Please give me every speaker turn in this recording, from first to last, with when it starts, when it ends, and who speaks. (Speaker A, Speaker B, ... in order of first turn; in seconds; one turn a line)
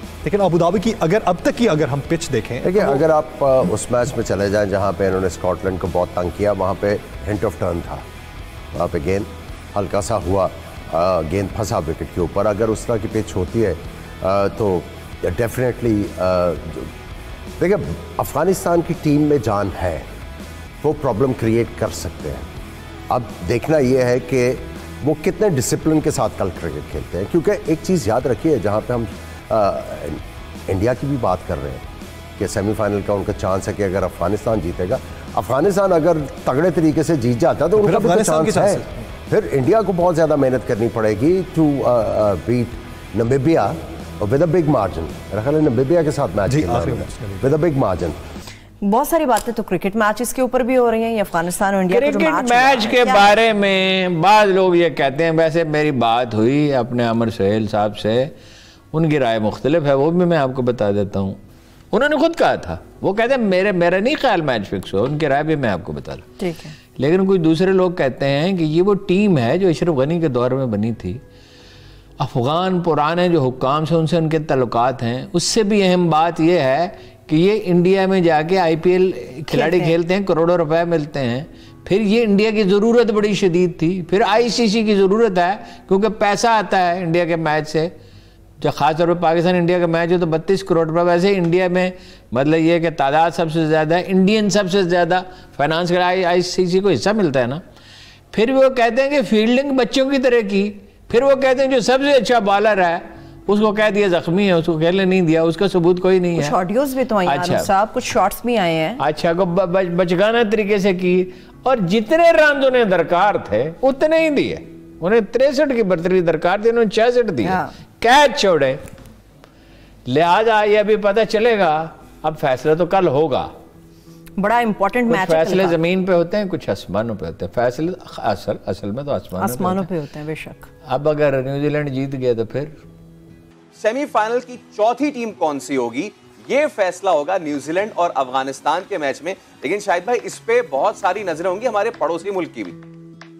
Speaker A: 0.2-3.0
Speaker B: 2.6-8.0
Speaker B: 8.7-16.9
Speaker B: 17.6-20.1
Speaker B: 20.8-22.5
Speaker B: 23.1-31.8
Speaker B: 32.4-48.2
Speaker A: 37.8-39.1
Speaker A: 46.5-47.5
Speaker C: 48.8-53.3
Speaker D: 51.9-58.4
Speaker D: 58.9-61.4
Speaker D: 61.9-71.2
Speaker C: 66.4-66.7
Speaker D: 72.2-87.9
Speaker C: 79.5-79.9
Speaker D: 88.6-97.6
Speaker D: 98.3-106.6
Speaker C: 106.4-109.0
Speaker D: 107.2-107.7
Speaker D: 109.0-118.8
Speaker D: 120.1-123.5
Speaker C: 124.4-125.8
Speaker D: 125.1-129.9
Speaker C: 129.4-130.7
Speaker D: 130.8-132.7
Speaker E: 133.8-142.8